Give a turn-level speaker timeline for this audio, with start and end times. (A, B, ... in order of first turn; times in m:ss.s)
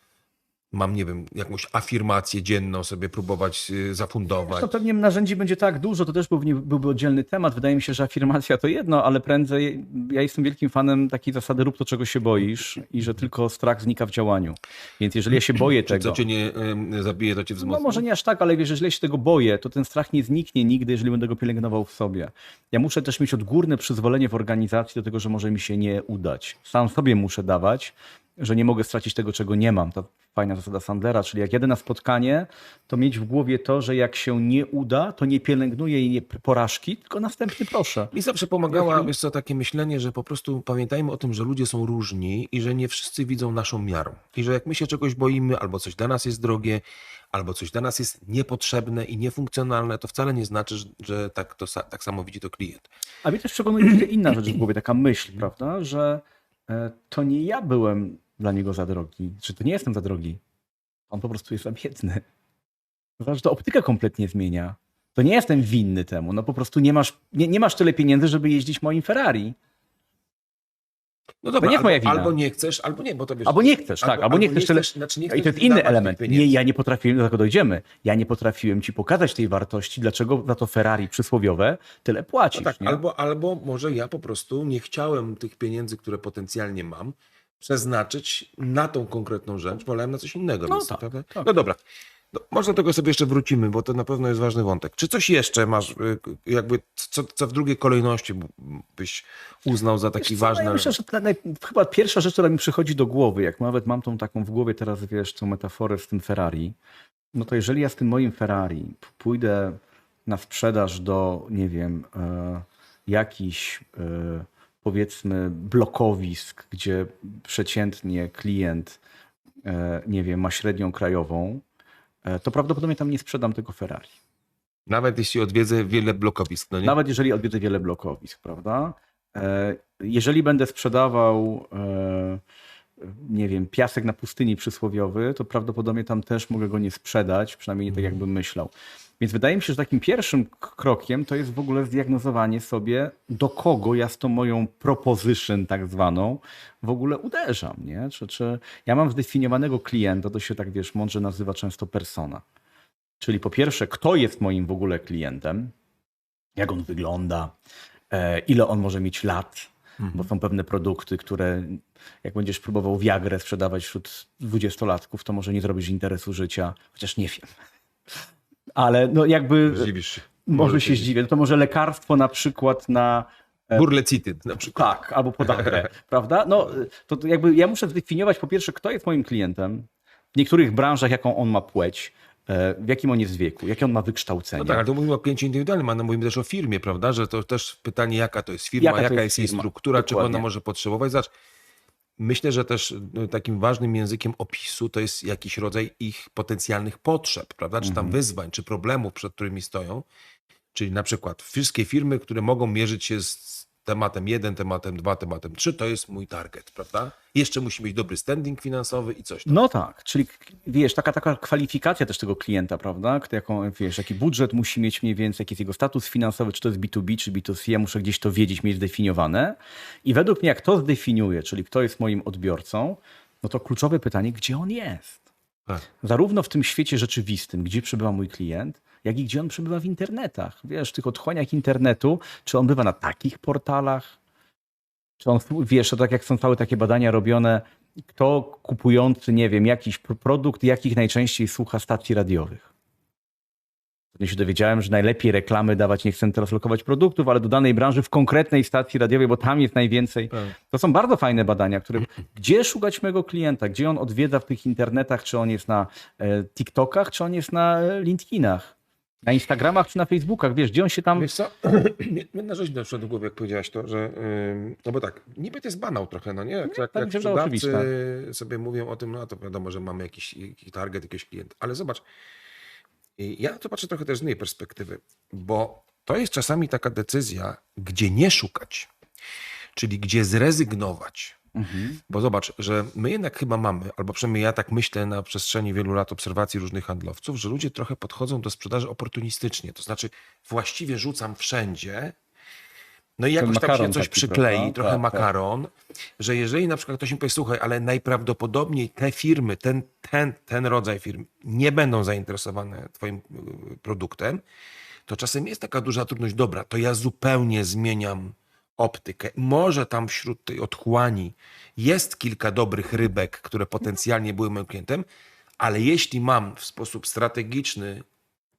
0:00.7-0:04.7 A
0:04.5-0:16.2 B
0:15.8-0:18.0 A
0:17.6-0:38.1 B
0:38.1-0:52.9 A
0:38.7-0:39.1 B
0:53.2-1:00.4 B
1:01.1-1:02.2 B
1:03.2-1:09.6 B
1:11.4-1:16.6 A
1:11.6-1:12.4 B
1:13.4-1:23.0 B
1:22.5-1:31.8 A
1:30.7-1:31.5 B
1:32.3-1:40.9 A
1:40.2-1:46.8 B
1:47.3-1:59.0 B
1:59.6-2:01.6 B
2:02.2-2:04.1 B
2:04.9-2:07.0 A
2:06.8-2:12.4 B
2:13.0-2:32.4 B
2:33.2-2:35.7 B
2:36.6-2:37.5 B
2:38.1-2:47.5 B
2:40.0-2:40.3 A
2:48.8-2:49.9 B
2:49.7-2:51.1 A
2:50.4-2:53.9 B
2:53.8-2:54.9 A
2:54.6-3:04.8 B
3:04.6-3:11.3 A
3:08.8-3:10.4 B
3:12.2-3:20.0 A
3:17.8-3:18.2 B
3:20.7-3:29.6 A
3:29.5-3:45.2 B
3:46.0-3:54.2 B
3:55.2-4:02.7 B
4:04.2-4:21.3 B
4:21.2-4:32.0 A
4:26.7-4:27.9 B
4:33.2-4:38.9 A
4:39.8-4:41.4 A
4:41.6-4:42.0 B
4:42.1-4:52.2 A
4:53.2-5:04.4 A
4:53.4-4:55.3 B
5:05.1-5:15.1 A
5:15.6-5:18.0 A